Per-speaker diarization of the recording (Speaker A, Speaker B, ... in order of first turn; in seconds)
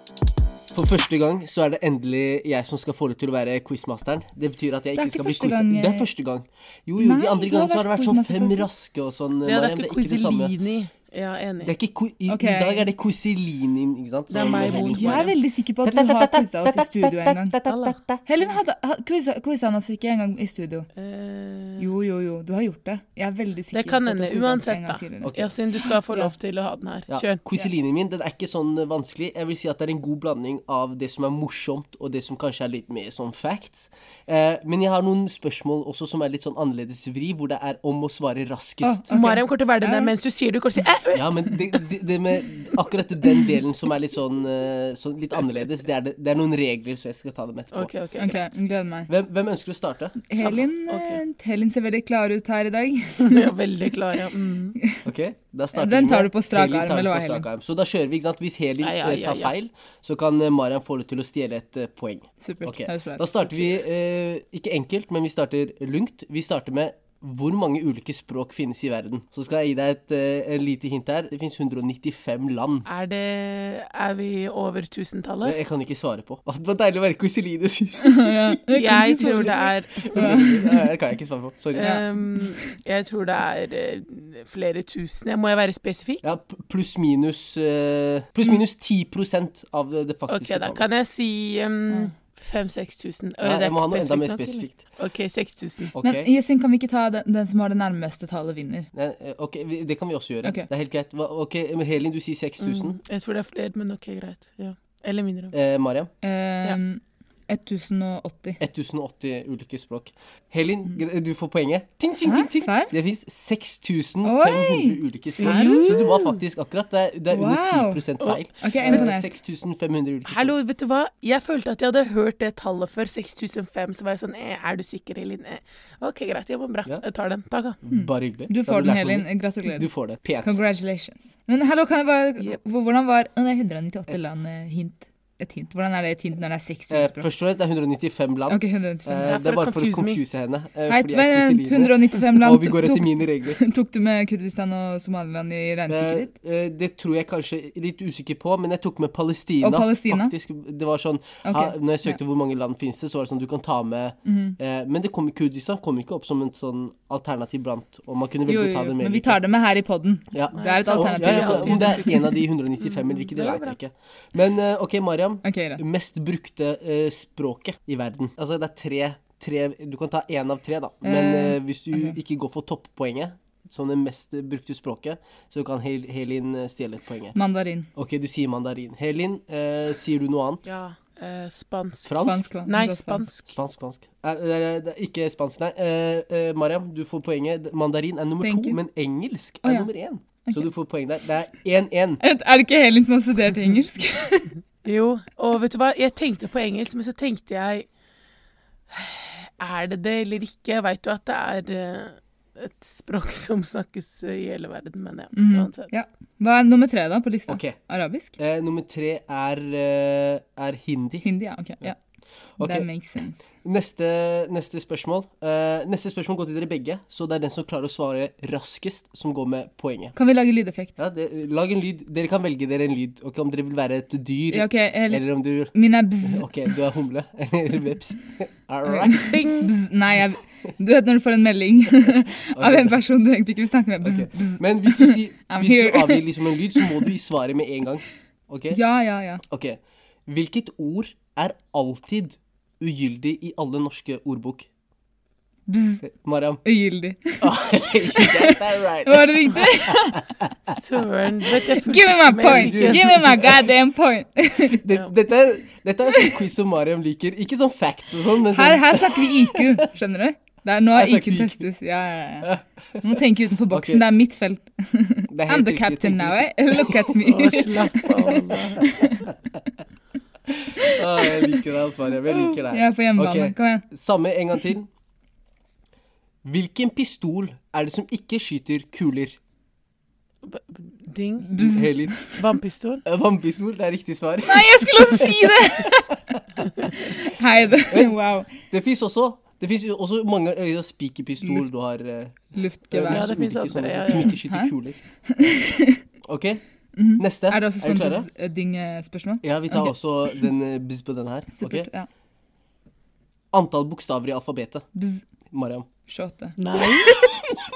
Speaker A: 0.7-10.5, 11.6-15.3, 15.8-18.2, 25.2-25.5, 27.1-39.0, 41.1-47.9, 49.1-50.2, 55.0-72.8, 75.4-78.6, 80.0-81.9, 86.2-90.8, 93.4-94.8, 95.9-96.3, 98.9-103.0, 105.5-106.1, 108.6-120.5, 127.8-130.6, 136.9-143.6, 145.9-159.4, 160.3-177.3, 177.9-180.7, 182.0-182.5, 183.5-192.2, 207.5-207.8, 208.4-211.2, 212.6-212.8, 213.6-220.2, 221.0-229.4, 232.5-233.0, 234.0-238.8, 239.4-244.7, 246.0-246.6, 247.4-250.8, 252.4-253.2, 254.8-259.9, 260.9-261.7, 262.4-264.0, 265.3-267.2, 268.8-269.6, 270.5-274.9, 276.4-279.4, 281.6-282.2, 283.0-285.3, 287.8-295.0, 296.2-296.6, 297.2-298.3, 299.4-301.9, 303.5-304.9, 305.5-305.9
Speaker B: 5.0-6.1, 7.0-8.7, 12.3-12.9, 14.7-17.6, 18.2-20.9, 21.8-26.3, 38.8-40.1, 48.1-49.1, 50.2-53.5, 55.7-57.5, 62.4-63.8, 78.0-80.8, 81.8-82.0, 96.0-98.9, 100.4-100.7, 106.2-108.6, 112.2-112.9, 114.2-116.0, 117.3-118.0, 118.6-119.3, 127.9-129.9, 130.4-137.3, 138.5-139.3, 140.9-146.3, 149.6-150.3, 151.4-152.2, 154.2-154.6, 158.5-162.3, 165.4-165.8, 171.0-172.2, 177.3-177.9, 182.2-183.3, 188.4-188.8, 189.6-189.9, 192.2-194.5, 205.3-208.3, 211.2-212.0, 212.6-213.5, 220.2-220.9, 224.5-226.7, 228.8-237.0, 238.7-239.4, 245.7-246.0, 246.6-250.3, 251.8-254.8, 258.5-262.5, 263.0-269.3, 270.7-271.6, 272.2-273.9, 281.4-282.4, 284.4-288.5, 292.5-293.3, 294.1-294.7, 295.3-296.0, 296.9-300.4, 301.5-302.1, 304.9-305.2, 306.1-307.5
Speaker C: 9.4-11.7, 14.3-15.3, 17.6-18.0, 20.9-21.9, 23.7-27.4, 39.1-41.5, 47.7-48.5, 50.4-51.2, 53.2-54.8, 58.8-59.5, 72.8-75.6, 78.7-80.2, 81.7-86.2, 90.3-95.9, 102.6-105.5, 115.4-116.4, 118.2-119.0, 120.3-127.8, 139.2-140.2, 160.5-162.2, 162.8-163.8, 180.7-183.6, 194.8-197.9, 198.9-205.9, 229.2-229.7, 250.7-253.4, 267.2-268.9, 280.4-281.5, 282.3-283.0, 293.1-294.3, 306.6-307.2